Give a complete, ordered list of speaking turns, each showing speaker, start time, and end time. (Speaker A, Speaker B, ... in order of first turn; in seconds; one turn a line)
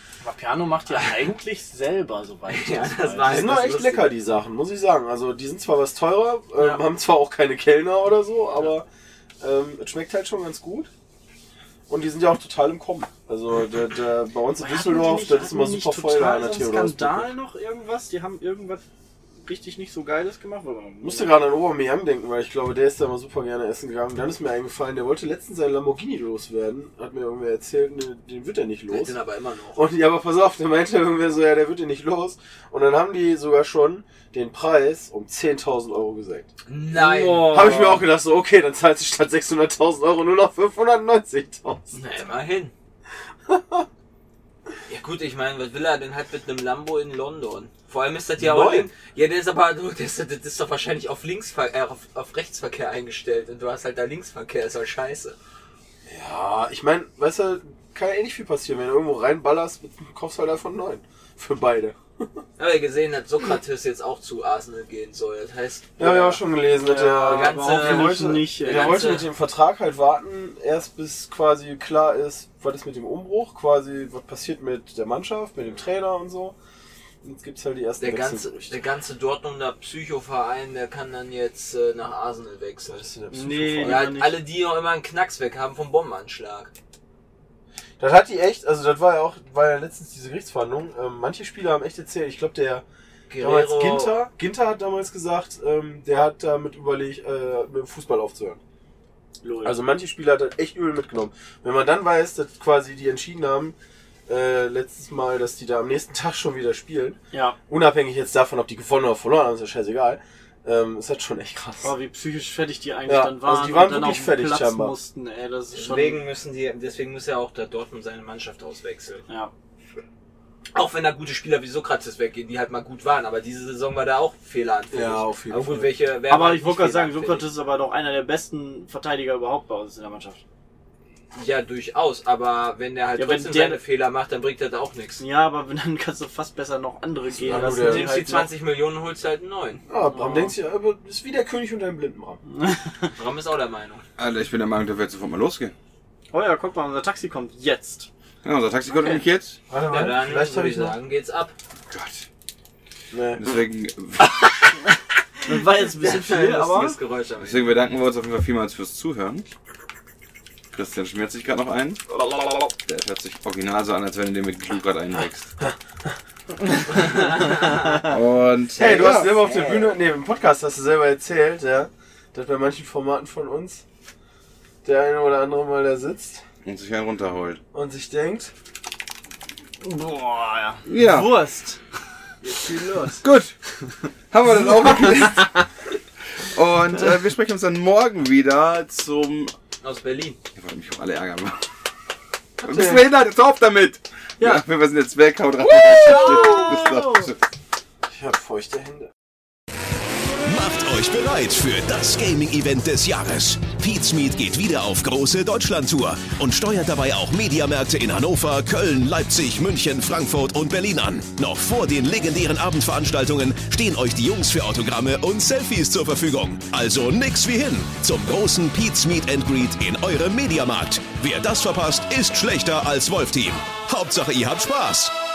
Speaker A: 0.2-3.4
Speaker B: 2.5-4.2
Speaker C: 3.2-8.9
Speaker C: 9.4-10.9
Speaker C: 11.9-17.3
Speaker A: 14.6-18.8
Speaker A: 19.4-21.3
Speaker C: 21.0-29.1
Speaker B: 28.9-29.8
Speaker C: 29.7-36.5
Speaker B: 36.7-37.9
Speaker A: 36.9-38.1
Speaker C: 37.4-41.8
Speaker B: 41.9-42.7
Speaker C: 43.5-43.9
Speaker B: 44.9-55.4
Speaker C: 48.4-48.9
Speaker C: 56.0-62.3
Speaker B: 62.6-66.4
Speaker C: 66.0-76.5
Speaker A: 66.8-69.2
Speaker B: 67.0-69.3
Speaker C: 77.2-78.8
Speaker B: 78.0-83.1
Speaker C: 82.9-84.1
Speaker A: 83.3-84.4
Speaker B: 83.8-86.7
Speaker C: 88.0-92.8
Speaker B: 93.3-94.2
Speaker C: 93.4-98.6
Speaker A: 99.4-99.8
Speaker C: 99.6-103.8
Speaker C: 104.3-111.9
Speaker A: 107.3-107.6
Speaker A: 111.8-116.2
Speaker C: 113.1-115.0
Speaker B: 115.7-119.2
Speaker B: 120.7-127.4
Speaker C: 124.9-125.9
Speaker A: 126.3-130.4
Speaker B: 131.3-135.2
Speaker A: 133.2-133.8
Speaker A: 135.2-138.5
Speaker C: 137.4-138.2
Speaker B: 137.5-139.8
Speaker C: 139.9-142.4
Speaker A: 140.0-140.6
Speaker A: 142.5-143.1
Speaker B: 143.1-144.0
Speaker D: 144.2-145.7
Speaker A: 146.3-148.1
Speaker D: 148.4-149.6
Speaker A: 148.8-149.2
Speaker C: 149.7-150.9
Speaker B: 149.9-151.5
Speaker D: 151.9-152.2
Speaker C: 153.1-153.4
Speaker D: 153.3-154.5
Speaker A: 155.4-157.0
Speaker B: 156.0-157.7
Speaker D: 157.4-159.5
Speaker D: 160.7-165.5
Speaker D: 167.7-169.4
Speaker C: 168.7-173.8
Speaker B: 168.8-169.9
Speaker C: 174.8-176.4
Speaker D: 176.6-177.6
Speaker C: 177.7-178.5
Speaker A: 179.8-181.8
Speaker D: 180.8-181.3
Speaker B: 182.4-183.0
Speaker C: 182.6-183.1
Speaker D: 183.2-183.5
Speaker D: 184.3-185.5
Speaker D: 186.5-189.5
Speaker B: 189.8-190.4
Speaker D: 190.5-191.6
Speaker D: 192.6-197.4
Speaker C: 192.6-193.0
Speaker A: 195.6-197.3
Speaker C: 198.1-199.1
Speaker E: 200.4-225.1